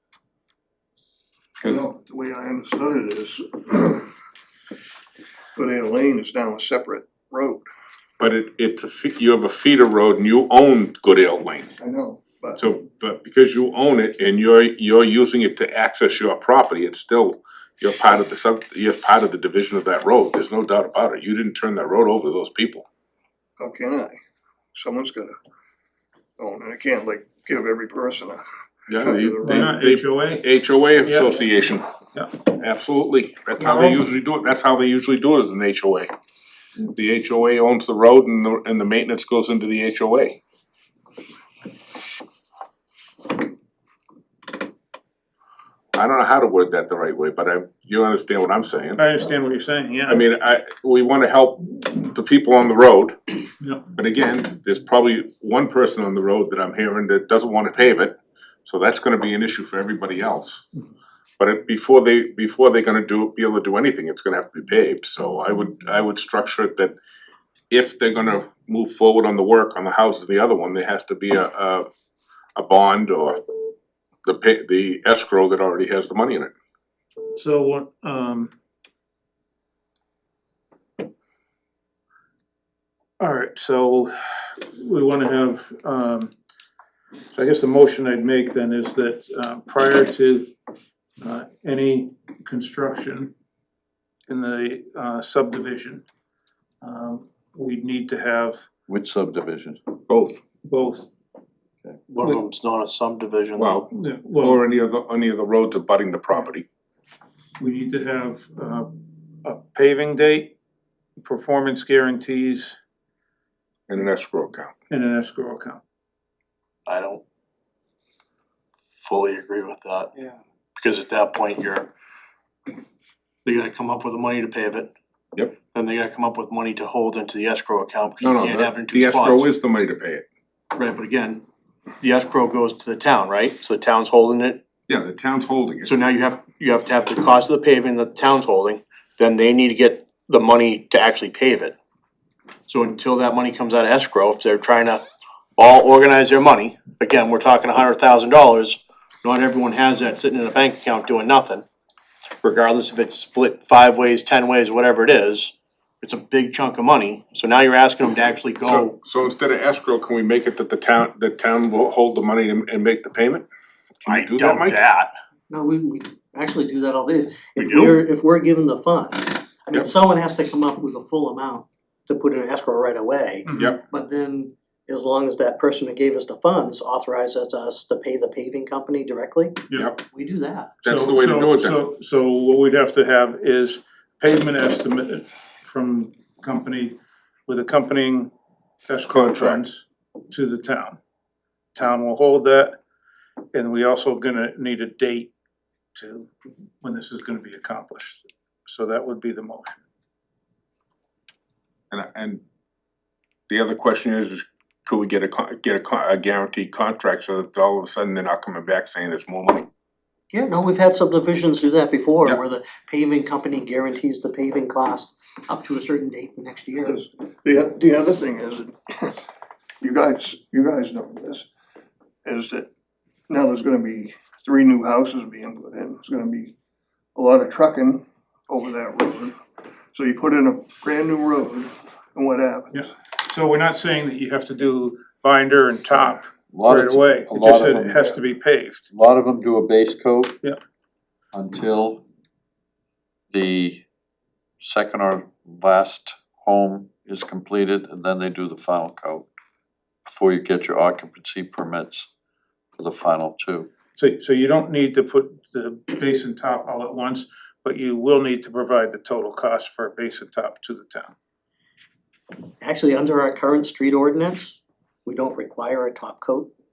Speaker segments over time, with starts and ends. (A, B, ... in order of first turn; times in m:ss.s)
0:01.6-0:04.1 A
0:05.6-0:07.6 A
0:08.2-0:11.7 B
0:11.8-0:12.6 A
0:12.6-0:22.9 B
0:23.6-0:24.2 A
0:24.7-0:25.4 A
0:26.4-0:28.4 A
0:28.9-0:31.8 B
0:29.0-0:29.7 A
0:29.4-0:30.5 C
0:31.0-0:31.3 C
0:32.5-0:36.1 B
0:33.6-0:34.0 D
0:36.8-0:40.4 B
0:46.0-0:49.0 B
0:49.0-0:50.2 C
0:50.1-0:53.4 B
0:53.6-0:53.9 C
0:54.0-1:00.6 B
1:01.4-1:07.0 B
1:07.7-1:11.9 B
1:12.6-1:13.4 B
1:14.3-1:16.5 B
1:17.3-1:18.5 C
1:23.2-1:26.3 C
1:27.4-1:30.5 C
1:31.2-1:33.3 C
1:34.3-1:36.0 C
1:36.8-1:38.7 C
1:38.9-1:39.8 E
1:40.1-1:40.4 B
1:40.7-1:41.1 C
1:42.1-1:43.8 F
1:43.6-1:46.6 B
1:43.9-1:44.6 C
1:47.6-1:48.9 C
1:49.4-1:50.5 C
1:51.2-1:52.8 C
1:53.9-1:54.7 B
1:54.9-1:55.8 C
1:56.9-1:57.2 F
1:58.9-2:00.2 F
2:00.8-2:01.9 F
2:03.4-2:04.9 F
2:05.7-2:09.5 F
2:08.2-2:10.2 B
2:10.7-2:11.4 F
2:12.0-2:14.6 F
2:14.9-2:15.9 B
2:15.8-2:21.8 F
2:22.7-2:25.0 F
2:25.6-2:31.6 F
2:32.4-2:38.9 F
2:38.6-2:43.5 B
2:44.0-2:44.8 B
2:44.1-2:45.1 F
2:45.5-3:00.8 D
2:47.6-2:48.0 F
2:53.4-2:53.8 C
2:59.7-3:00.0 B
3:00.8-3:01.8 B
3:00.8-3:08.3 C
3:08.9-3:11.0 C
3:09.1-3:09.6 B
3:11.8-3:12.8 C
3:13.5-3:15.3 C
3:16.0-3:19.8 C
3:21.9-3:22.4 B
3:23.5-3:29.7 B
3:30.3-3:37.0 D
3:36.8-3:39.2 A
3:39.8-3:41.5 A
3:42.2-3:42.7 A
3:43.3-3:46.5 A
3:47.2-3:49.4 A
3:49.9-3:52.8 A
3:52.7-3:58.8 C
3:56.5-3:58.1 E
3:58.9-4:00.4 E
4:01.3-4:02.0 E
4:03.3-4:03.8 E
4:04.6-4:09.3 E
4:10.1-4:12.1 E
4:12.7-4:13.7 E
4:14.0-4:21.1 C
4:22.6-4:26.5 D